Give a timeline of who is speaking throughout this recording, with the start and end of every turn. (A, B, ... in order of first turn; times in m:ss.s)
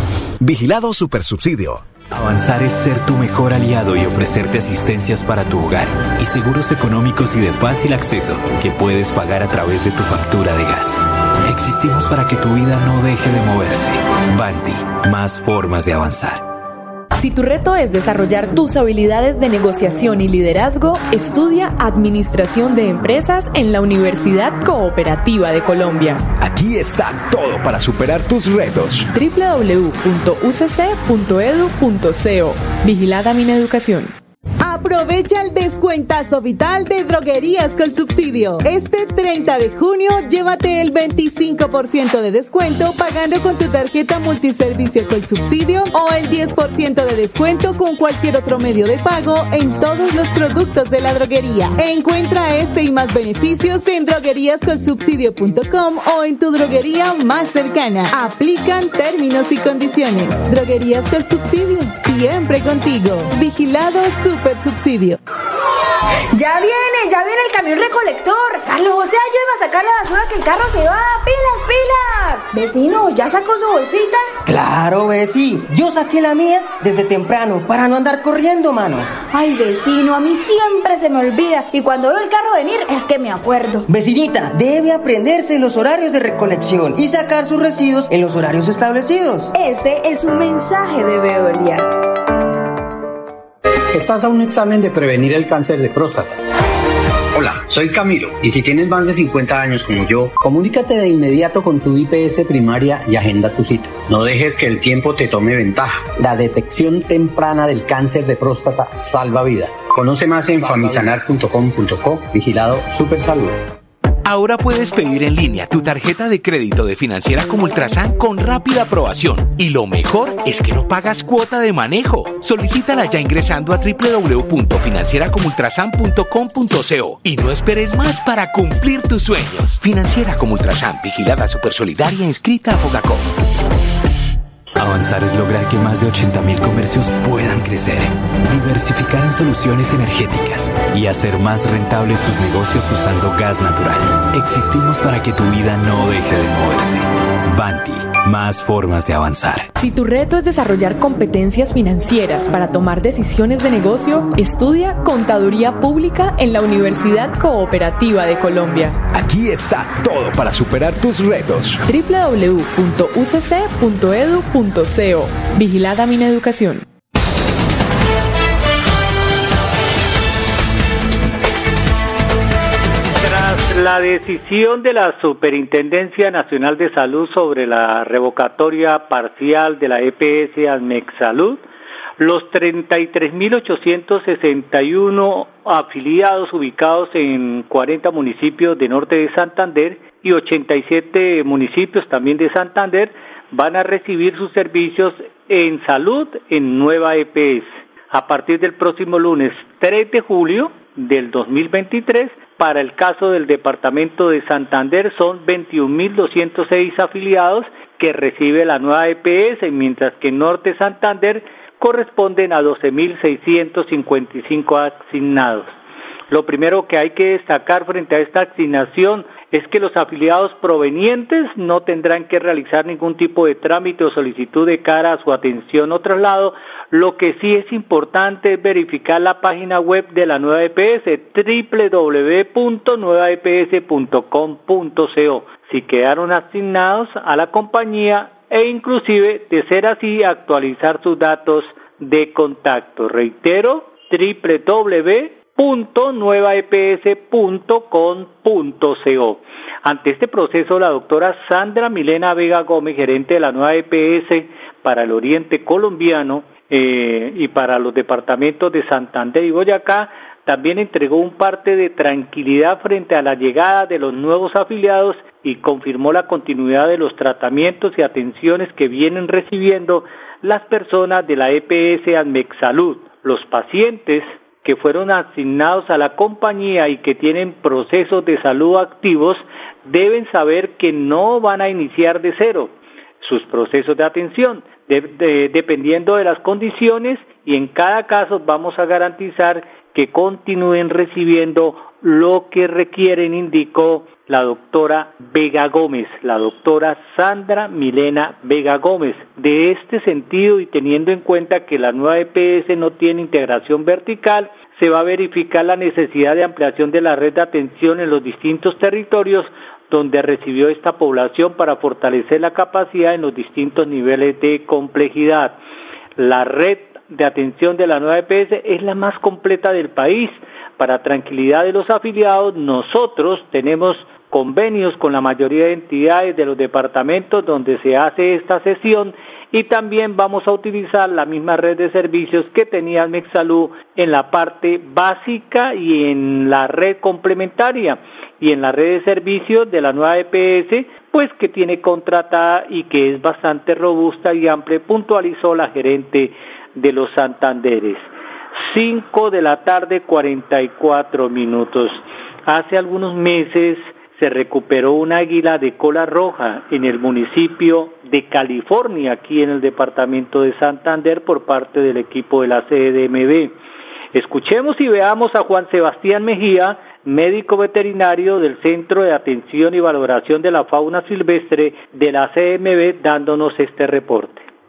0:00.4-0:01.9 A
0:02.1-0:16.4 B
0:17.2-0:26.3 C
0:26.4-0:29.1 A
0:29.1-0:34.2 C
0:34.6-1:05.2 D
1:06.3-1:14.3 E
1:14.4-1:19.1 F
1:19.3-1:23.9 E
1:23.9-1:29.5 F
1:29.5-1:31.9 E
1:33.9-1:36.4 G
1:37.3-1:53.6 G
1:54.2-2:13.3 H
2:14.8-2:29.7 B
2:29.8-2:39.0 C
2:39.1-2:41.8 A
2:41.9-2:46.9 C
2:53.2-3:01.6 I
3:02.2-3:35.8 I
3:36.3-5:15.6 I
5:16.2-6:03.6 I
6:04.1-6:14.5 I